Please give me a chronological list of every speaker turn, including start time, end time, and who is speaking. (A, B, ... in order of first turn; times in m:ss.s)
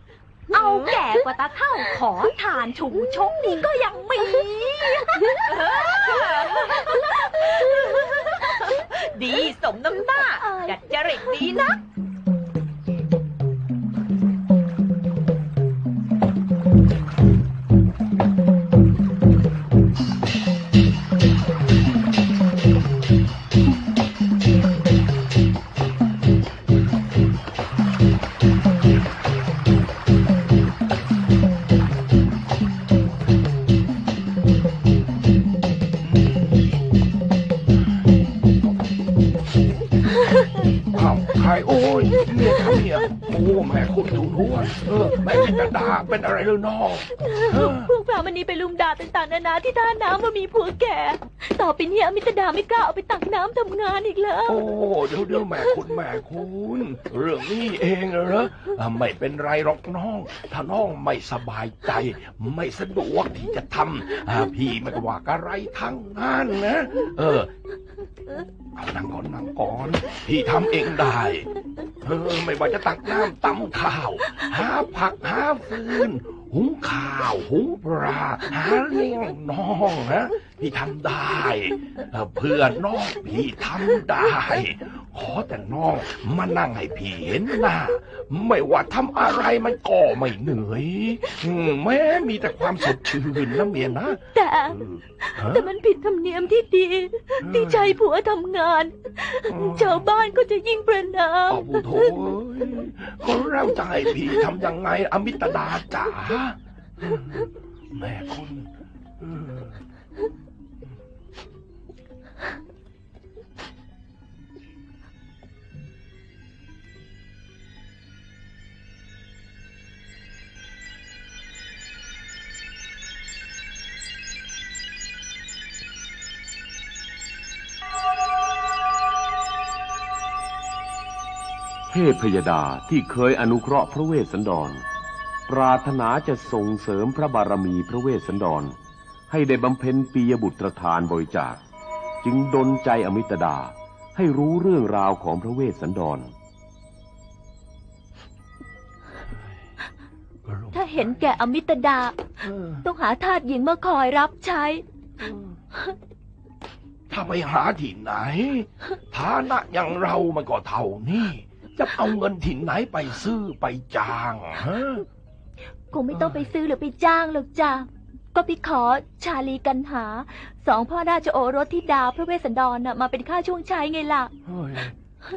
0:00.5-0:06.0 A
0:00.5-0:01.0 B
0:05.3-0:11.8 B
0:06.7-0:07.1 A
0:10.1-0:11.3 A
0:36.1-0:36.4 C
0:40.9-0:47.9 C
0:42.2-0:42.8 A
0:45.3-0:45.7 A
0:47.2-0:54.6 A
0:54.5-1:07.5 C
0:55.4-0:55.8 A
1:08.7-1:11.5 C
1:12.0-1:35.7 C
1:34.3-1:42.2 A
1:37.4-1:38.0 C
1:39.5-1:40.1 C
1:41.5-1:49.8 C
2:11.9-2:14.8 D
2:15.5-2:18.8 D
2:19.3-2:21.6 D
2:22.2-2:26.3 D
2:30.4-2:31.4 C
2:30.7-2:32.2 A
2:32.4-2:32.9 C
2:32.8-2:34.8 A
2:35.2-2:35.6 C
2:37.1-2:45.0 C
2:45.9-2:54.3 A
2:46.1-2:46.5 C
2:54.4-2:54.9 C